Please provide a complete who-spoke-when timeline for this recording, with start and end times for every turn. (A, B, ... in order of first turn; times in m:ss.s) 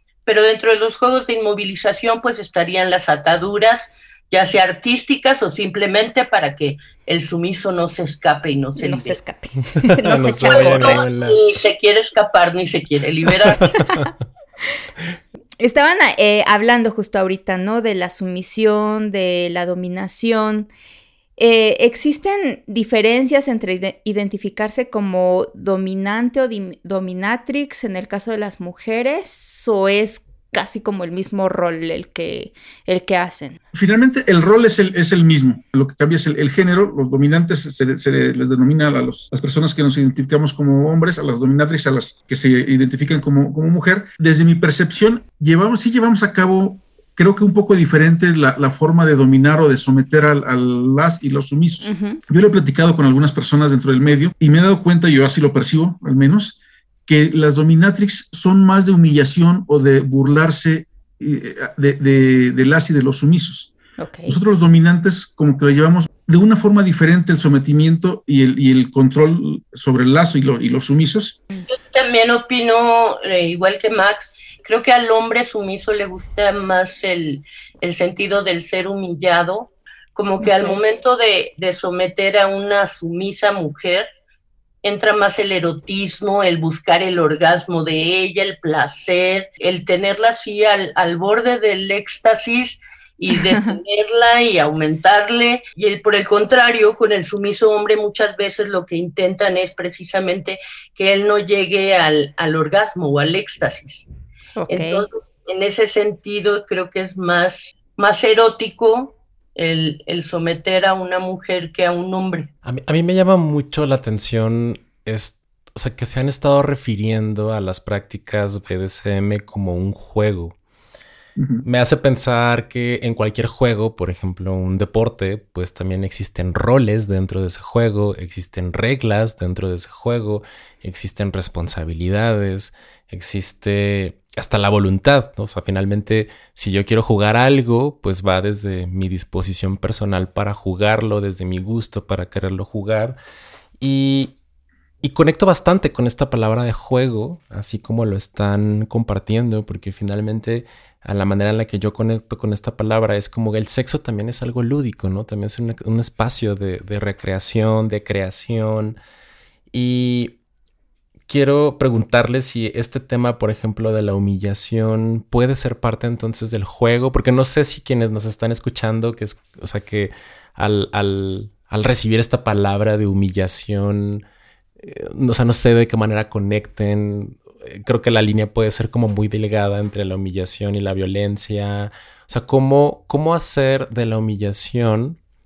0:00.3-0:09.2 A
0:08.8-0:11.0 B
0:09.8-0:11.4 C
0:10.5-0:13.8 A
0:13.5-0:14.1 C
0:15.6-0:20.7 B
0:21.4-0:33.6 B
0:33.7-1:03.7 D
0:51.8-0:52.2 B
1:04.0-1:04.4 B
1:04.3-1:11.4 D
1:11.7-1:24.1 A
1:20.4-1:20.8 B
1:24.8-1:44.0 A
1:44.6-1:45.0 B
1:44.7-1:52.5 A
1:52.6-2:00.6 C
2:01.4-2:01.6 D
2:01.6-2:23.2 C
2:23.8-2:24.3 C
2:25.0-2:39.0 C
2:39.7-2:40.4 C
2:41.3-2:54.2 C
2:54.8-3:05.2 C